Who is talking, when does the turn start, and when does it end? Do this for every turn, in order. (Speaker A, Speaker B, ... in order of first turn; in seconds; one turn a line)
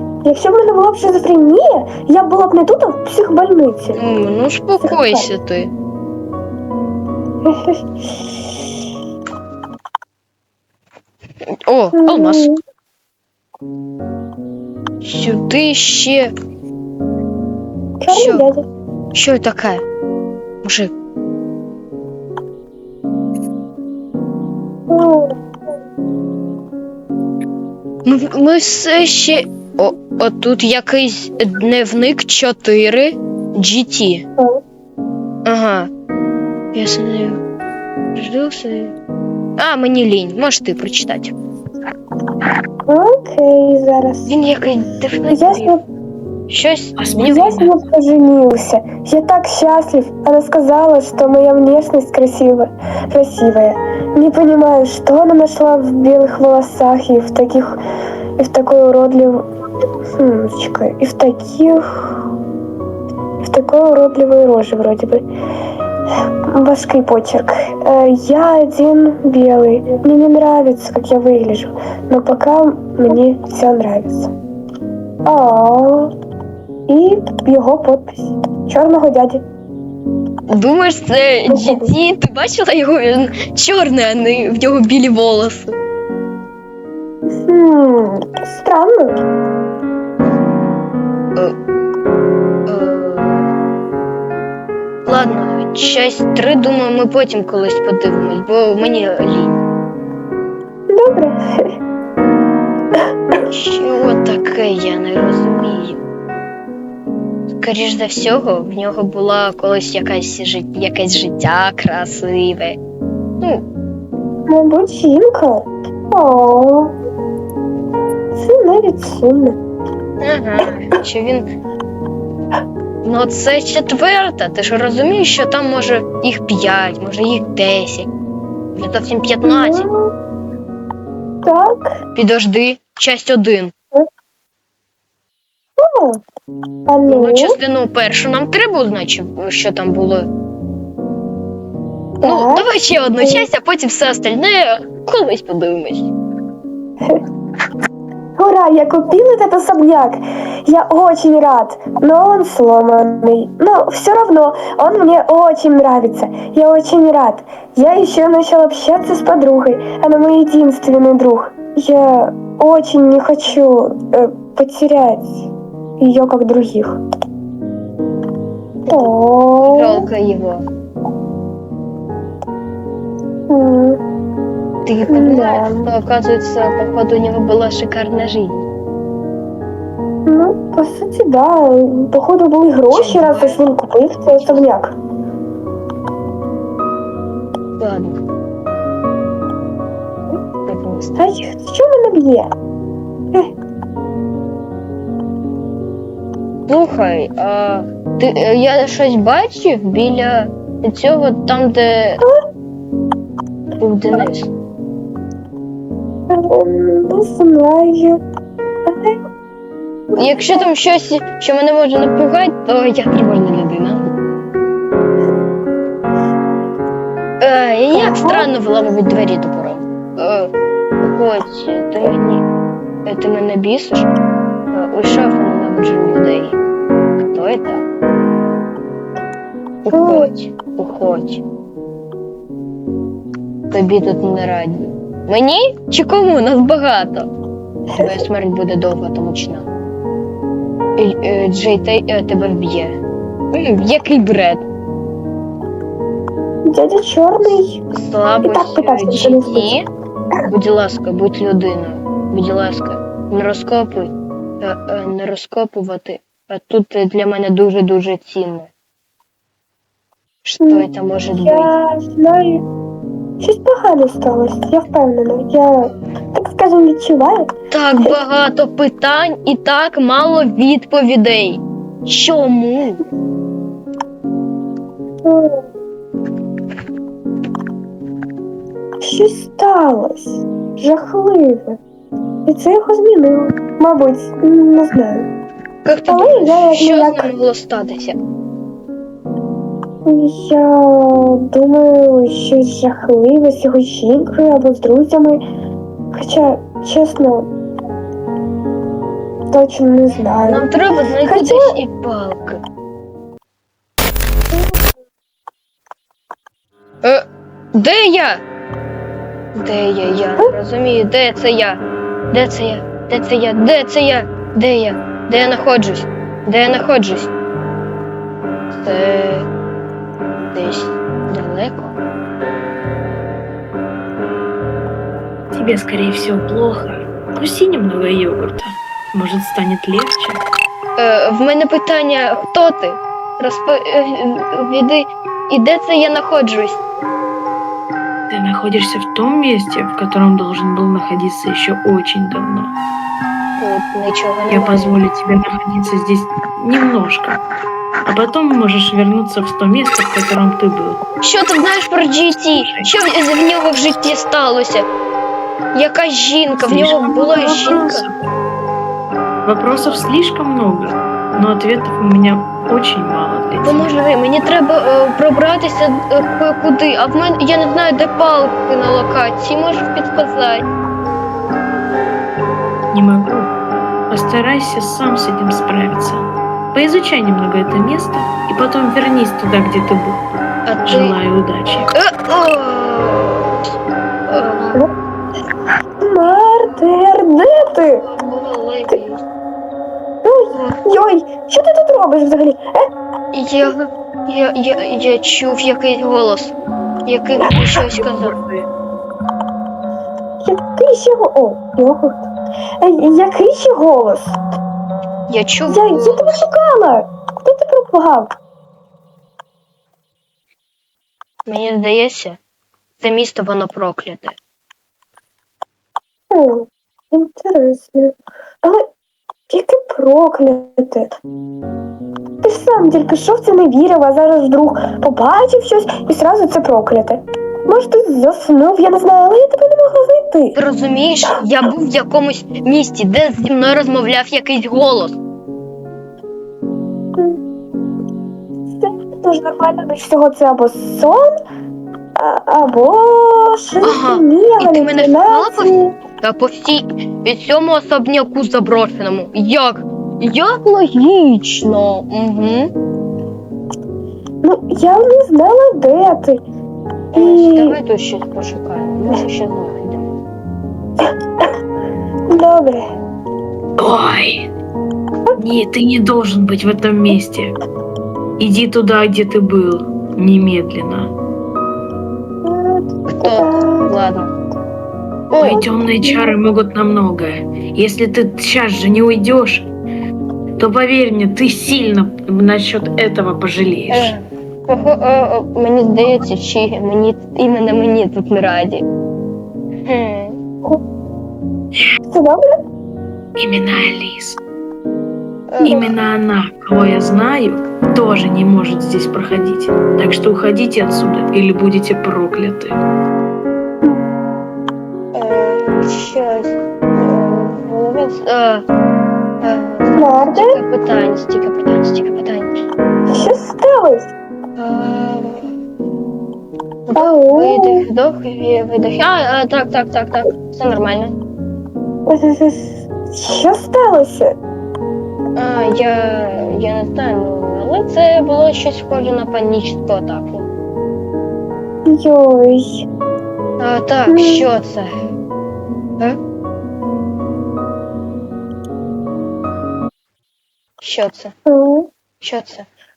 Speaker A: 0.2-4.0
Speaker B: 3.9-5.7
Speaker A: 4.8-5.3
Speaker A: 7.4-8.2
Speaker B: 11.7-12.5
Speaker A: 11.9-12.6
Speaker B: 15.0-16.3
Speaker A: 18.0-18.6
Speaker B: 18.1-18.4
Speaker B: 19.1-19.8
Speaker B: 20.6-20.9
Speaker A: 24.9-25.4
Speaker B: 28.0-34.2
Speaker B: 35.5-35.9
Speaker B: 36.7-37.4
Speaker B: 38.1-38.9
Speaker B: 39.6-41.3
Speaker A: 42.9-44.3
Speaker B: 44.3-45.8
Speaker A: 45.3-45.8
Speaker B: 46.5-47.2
Speaker C: 47.0-47.8
Speaker A: 47.2-57.8
Speaker A: 58.4-59.5
Speaker A: 60.1-62.1
Speaker A: 63.4-65.3
Speaker A: 66.5-74.3
Speaker A: 75.2-76.1
Speaker A: 76.9-79.4
Speaker B: 80.5-85.8
Speaker A: 81.5-81.9
Speaker A: 87.3-89.2
Speaker B: 92.7-93.5
Speaker B: 95.0-99.6
Speaker A: 100.9-101.8
Speaker B: 103.4-106.0
Speaker B: 107.5-112.8
Speaker A: 114.5-116.9
Speaker A: 118.3-119.6
Speaker B: 120.2-121.5
Speaker B: 123.0-128.1
Speaker B: 128.7-129.9
Speaker A: 129.4-130.1
Speaker A: 131.4-131.9
Speaker B: 132.1-133.7
Speaker A: 135.8-136.2
Speaker A: 136.9-137.6
Speaker B: 137.1-140.3
Speaker A: 142.2-142.7
Speaker B: 142.2-146.1
Speaker A: 143.2-143.4
Speaker A: 148.4-165.3
Speaker A: 166.0-167.0
Speaker B: 168.8-170.6
Speaker A: 168.9-170.1
Speaker A: 173.5-174.0
Speaker B: 174.8-178.6
Speaker A: 175.1-175.9
Speaker A: 180.2-184.9
Speaker B: 182.9-183.6
Speaker B: 184.3-184.7
Speaker B: 187.8-188.2
Speaker B: 190.7-191.4
Speaker A: 191.2-192.5
Speaker B: 196.7-202.2
Speaker B: 203.8-204.5
Speaker A: 206.3-208.2
Speaker A: 208.8-209.2
Speaker A: 210.1-210.6
Speaker B: 210.1-214.1
Speaker B: 217.4-220.5
Speaker A: 217.9-218.5
Speaker B: 221.0-222.4
Speaker B: 223.0-224.1
Speaker B: 224.7-226.6
Speaker B: 227.2-227.8
Speaker B: 229.8-231.4
Speaker A: 229.9-230.3
Speaker B: 233.7-237.3
Speaker A: 237.9-238.2
Speaker B: 238.0-239.7
Speaker B: 241.0-243.0
Speaker B: 243.5-244.6
Speaker A: 246.7-247.8
Speaker B: 247.9-249.8
Speaker A: 248.4-249.8
Speaker B: 250.5-258.7
Speaker B: 260.4-261.7
Speaker A: 260.6-260.9
Speaker A: 261.4-262.6
Speaker A: 263.4-268.2
Speaker B: 265.8-266.1
Speaker B: 267.7-273.0
Speaker A: 275.2-275.7
Speaker A: 279.0-281.8
Speaker A: 282.4-285.3
Speaker B: 285.8-288.1
Speaker A: 286.1-287.3
Speaker A: 290.1-295.4
Speaker A: 296.1-297.5
Speaker A: 299.5-300.7
Speaker B: 300.4-302.6
Speaker A: 301.2-301.8
Speaker B: 307.0-308.4
Speaker B: 309.5-317.3
Speaker B: 318.7-319.5
Speaker B: 320.5-321.9
Speaker C: 325.5-330.4
Speaker B: 331.0-336.8
Speaker C: 338.3-342.7
Speaker B: 343.6-344.9
Speaker C: 344.5-347.4
Speaker C: 348.0-351.0
Speaker B: 351.2-354.9
Speaker C: 352.5-352.9
Speaker B: 355.7-358.0
Speaker C: 356.5-358.1
Speaker C: 359.4-363.9
Speaker B: 359.7-360.0
Speaker B: 363.6-370.6
Speaker C: 372.9-373.5
Speaker C: 374.1-380.2
Speaker B: 380.6-381.1
Speaker C: 380.9-381.9
Speaker B: 381.9-383.7
Speaker B: 384.3-384.9
Speaker A: 386.0-388.0
Speaker B: 386.3-386.8
Speaker B: 388.0-389.2
Speaker A: 390.2-392.9
Speaker B: 390.5-390.8
Speaker B: 393.3-396.5
Speaker B: 397.1-398.4
Speaker C: 398.0-398.6
Speaker A: 400.4-402.3
Speaker A: 402.8-404.4
Speaker B: 405.3-406.4
Speaker A: 405.7-408.3
Speaker B: 411.4-412.4
Speaker B: 413.0-414.4
Speaker A: 416.3-418.9
Speaker A: 419.5-421.1
Speaker A: 422.4-430.6
Speaker B: 430.5-435.2
Speaker A: 438.8-441.4
Speaker A: 442.1-445.9
Speaker B: 443.8-452.7
Speaker A: 454.4-456.4
Speaker B: 457.1-460.1
Speaker A: 457.1-457.8
Speaker A: 461.0-461.5
Speaker A: 462.3-462.9
Speaker C: 463.8-464.5
Speaker C: 465.4-467.5
Speaker C: 468.4-471.1
Speaker A: 472.4-473.9
Speaker B: 473.1-474.3
Speaker B: 475.3-475.6
Speaker A: 475.4-476.3
Speaker C: 475.4-479.7
Speaker C: 480.6-484.1
Speaker B: 483.9-488.8
Speaker B: 489.9-490.4
Speaker A: 492.1-492.6
Speaker C: 493.4-494.4
Speaker B: 495.5-495.9
Speaker C: 495.6-502.8
Speaker A: 495.6-495.9
Speaker B: 505.1-508.6
Speaker B: 509.4-512.5
Speaker A: 509.9-510.6
Speaker A: 513.1-514.1
Speaker B: 514.6-515.5
Speaker B: 516.9-521.1
Speaker A: 516.9-517.9
Speaker A: 522.0-524.4
Speaker B: 525.4-530.5
Speaker A: 531.9-532.9
Speaker B: 533.6-534.9
Speaker A: 534.1-534.5
Speaker B: 540.8-541.3
Speaker A: 541.5-541.9
Speaker B: 542.2-542.7